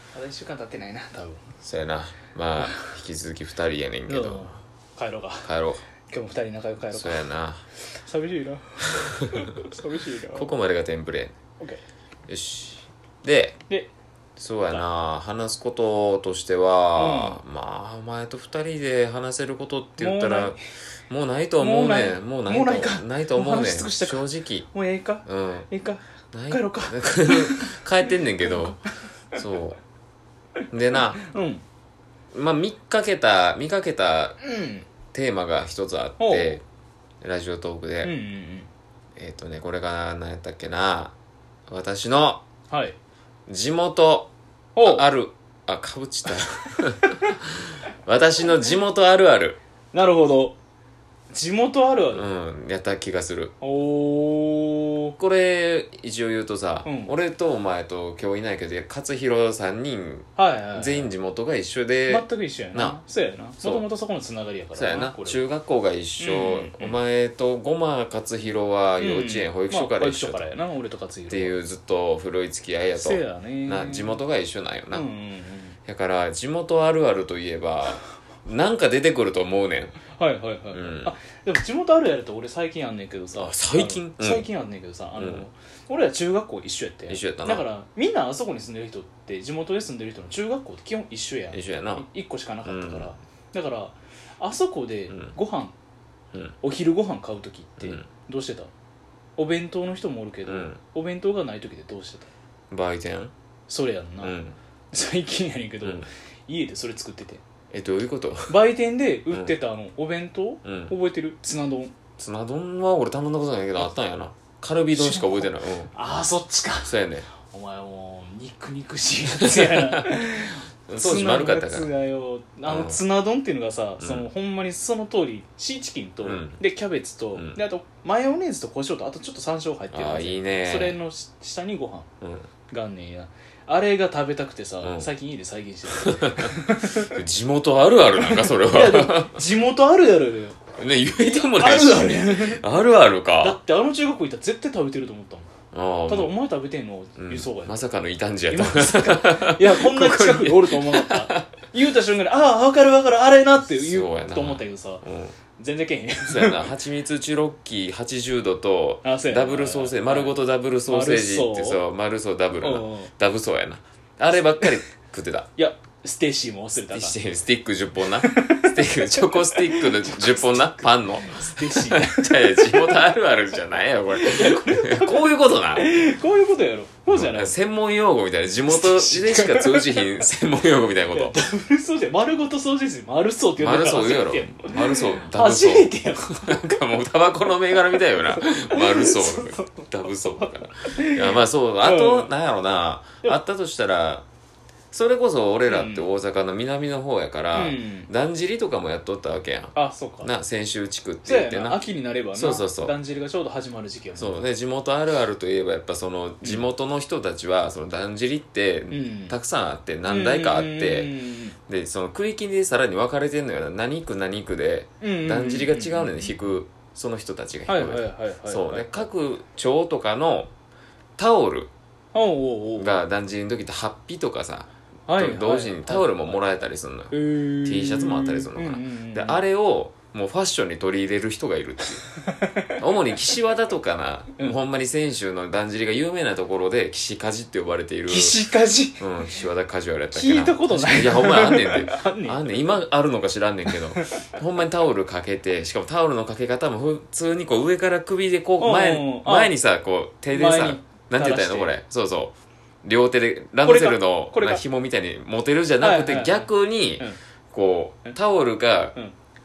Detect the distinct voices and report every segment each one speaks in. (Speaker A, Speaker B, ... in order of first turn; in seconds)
Speaker A: 0.1-1.4, 4.1-5.5, 6.1-7.2, 7.9-10.5, 16.9-17.4, 20.0-20.6, 21.6-27.8, 28.4-28.8, 31.2-31.6, 34.4-34.9, 36.2-36.5, 38.0-38.7, 42.7-43.0, 44.8-45.0, 49.9-50.5, 51.3-52.2, 53.6-55.1, 56.8-57.1, 60.4-61.1, 62.1-65.4, 66.2-66.9, 69.0-71.6, 72.9-74.2, 74.9-75.8, 80.1-95.7, 96.6-98.7, 99.4-102.3, 103.7-104.4, 104.9-107.4, 108.5-112.0, 114.9-132.1, 132.7-137.2, 138.2-140.6, 141.2-142.6, 143.4-145.5, 146.1-147.8, 148.5-155.0, 155.6-156.7, 159.0-160.3, 160.9-161.8, 162.6-163.1, 165.6-167.2, 168.2-173.0, 174.2-177.5, 178.7-180.2, 181.1-186.8, 188.2-192.3, 195.7-196.1, 197.5-198.1, 199.7-200.3, 201.2-204.5, 208.9-209.4, 210.1-211.6, 215.0-216.3, 217.7-219.1, 222.1-223.0, 225.1-226.4, 227.1-229.4, 232.2-232.7, 238.1-239.1, 240.1-242.4, 243.7-244.3, 248.6-249.5, 250.3-251.7, 253.6-254.6, 255.8-257.2
Speaker B: 1.6-4.5, 5.4-5.8, 6.9-7.7, 10.3-11.4, 12.3-13.6, 14.4-20.6, 21.1-24.7, 25.2-25.7, 26.3-28.8, 29.3-29.8, 30.7-31.2, 32.3-34.4, 35.1-36.6, 37.2-38.1, 39.1-41.1, 41.7-42.4, 43.5-44.3, 44.8-47.5, 48.0-49.6, 52.1-53.5, 55.2-63.0, 64.7-70.5, 71.3-75.1, 75.8-80.0, 80.7-81.1, 83.4-84.5, 85.2-85.4, 87.1-87.6, 91.5-92.0, 92.6-93.1, 95.1-95.4, 97.8-98.1, 100.5-100.8, 102.7-103.3, 104.2-104.5, 107.7-108.5, 110.6-110.9, 112.2-115.9, 116.8-117.3, 119.4-120.1, 120.9-121.9, 122.7-123.0, 124.0-124.3, 126.2-126.6, 127.3-127.6, 129.9-131.0, 132.2-132.5, 134.8-135.1, 136.0-139.4, 140.8-143.6, 145.7-146.3, 147.2-151.5, 153.6-155.4, 156.3-165.5, 166.9-175.9, 177.1-181.4, 183.6-194.2, 194.9-201.8, 202.3-202.9, 204.2-211.2, 211.7-220.5, 221.2-221.7, 222.8-232.1, 232.8-238.4, 239.0-258.9